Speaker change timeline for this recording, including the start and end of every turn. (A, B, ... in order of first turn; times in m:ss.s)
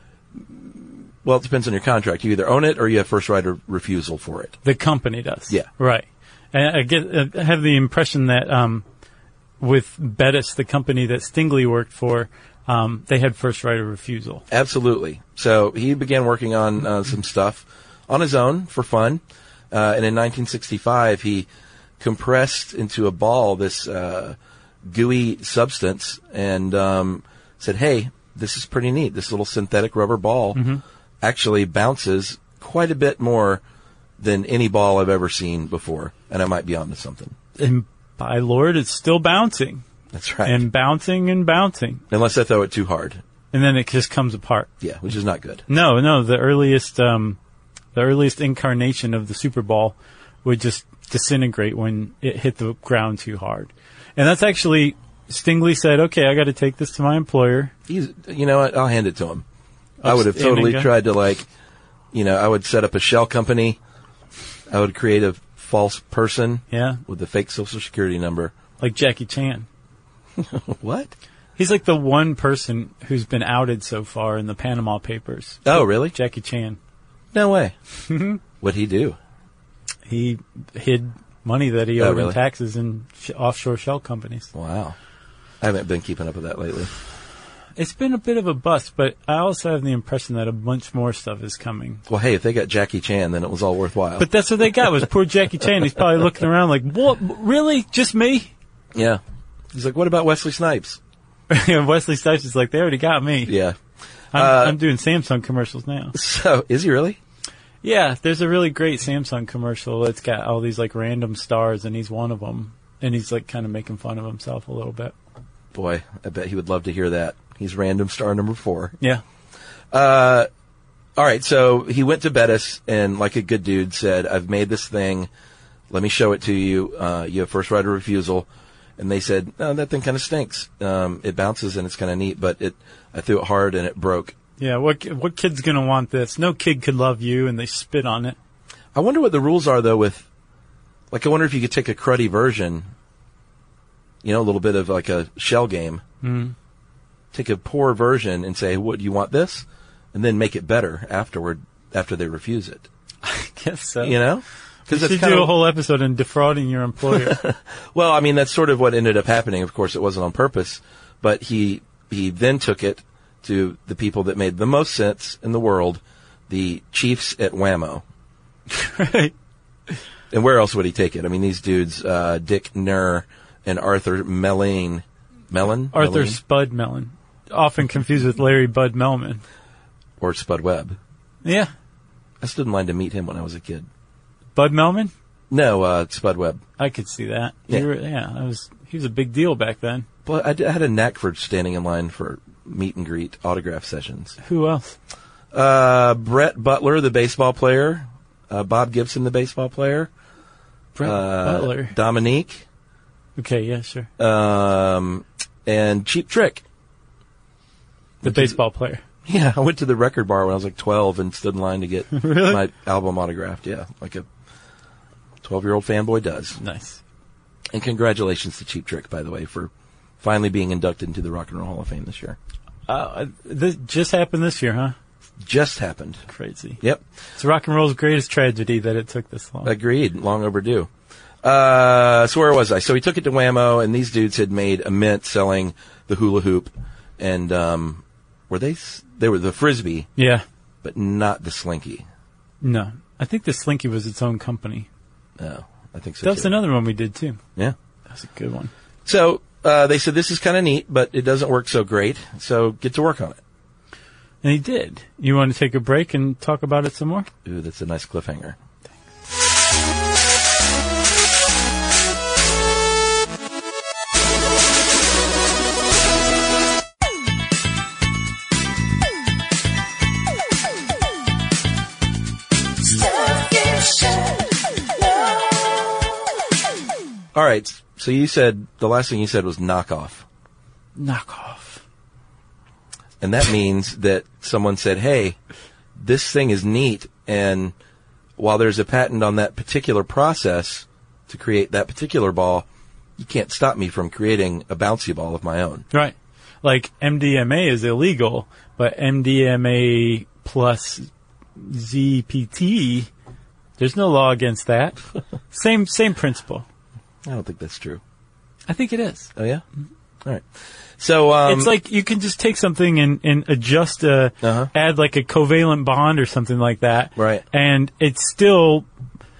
0:00.3-0:04.6 A
0:04.6-0:08.8 B
0:09.6-0:14.4 B
0:14.5-0:21.5 A
0:22.0-0:30.6 A
0:30.5-0:30.8 B
0:31.2-0:33.6 A
0:34.2-0:37.3 A
0:37.6-0:39.8 B
0:40.1-0:40.6 A
0:40.4-0:42.0 B
0:42.1-0:43.2 A
0:43.5-0:44.7 B
0:44.8-0:45.6 A
0:45.7-0:47.4 B
0:47.9-0:57.7 B
0:57.9-0:59.4 A
1:00.0-1:00.9 B
1:00.0-1:01.5 A
1:02.1-1:03.8 A
1:04.7-1:08.5 A
1:06.7-1:07.0 B
1:08.8-1:09.7 B
1:10.4-1:11.1 A
1:11.6-1:16.8 B
1:15.6-1:16.1 A
1:17.3-1:17.7 A
1:18.0-1:18.4 B
1:18.6-1:19.2 A
1:20.1-1:24.5 B
1:22.0-1:22.4 A
1:24.5-1:25.0 A
1:25.6-1:26.9 A
1:27.8-1:32.0 B
1:32.1-1:34.3 A
1:34.2-1:38.5 B
1:38.9-1:39.2 A
1:39.7-1:41.0 A
1:41.5-1:43.5 B
1:43.5-1:43.8 A
1:44.3-1:44.8 A
1:44.3-1:46.1 B
1:46.1-1:47.2 A
1:47.8-1:55.1 B
1:55.7-1:58.9 A
1:59.9-2:00.5 A
2:01.2-2:05.3 A
2:05.9-2:14.3 A
2:14.6-2:18.4 B
2:18.9-2:20.2 A
2:21.1-2:22.9 A
2:24.2-2:26.0 A
2:26.2-2:26.5 B
2:27.3-2:32.9 A
2:33.2-2:34.2 B
2:34.0-2:35.5 A
2:34.9-2:37.4 B
2:37.1-2:48.0 A
2:48.7-2:49.3 B
2:50.3-2:56.4 A
2:55.9-2:59.4 B
3:00.2-3:01.0 A
3:01.4-3:01.7 B
3:02.4-3:03.9 A
3:04.6-3:05.1 B
3:05.5-3:06.6 A
3:06.8-3:10.0 B
3:10.2-3:14.4 A
3:14.4-3:15.0 B
3:15.5-3:20.1 A
3:20.9-3:21.9 B
3:21.0-3:22.6 A
3:23.4-3:24.1 B
3:24.2-3:26.6 A
3:28.2-3:28.6 A
3:28.2-3:29.0 B
3:29.2-3:34.2 A
3:32.1-3:32.6 B
3:35.4-3:36.6 A
3:36.6-3:37.0 B
3:37.7-3:42.4 A
3:42.9-3:44.9 B
3:45.4-3:46.2 A
3:46.3-3:46.8 B
3:47.4-3:49.7 B
3:49.6-3:50.9 A
3:51.4-4:00.1 A
4:00.2-4:00.4 B
4:00.8-4:02.0 A
4:02.6-4:04.9 B
4:05.4-4:06.5 A
4:06.2-4:07.4 B
4:08.1-4:08.7 B
4:09.0-4:13.4 A
4:14.4-4:17.3 B
4:17.4-4:18.6 A
4:37.3-4:40.2 A
4:41.0-4:41.8 B
4:43.2-4:45.4 A
4:46.0-4:47.7 A
4:48.4-4:52.6 A
4:53.2-4:55.9 A
4:55.9-5:03.1 B
5:03.8-5:05.0 B
5:05.5-5:06.6 B
5:07.2-5:08.0 A
5:08.7-5:09.3 B
5:09.3-5:09.6 A
5:11.0-5:11.7 A
5:11.4-5:18.9 B
5:14.4-5:14.7 A
5:17.2-5:17.4 A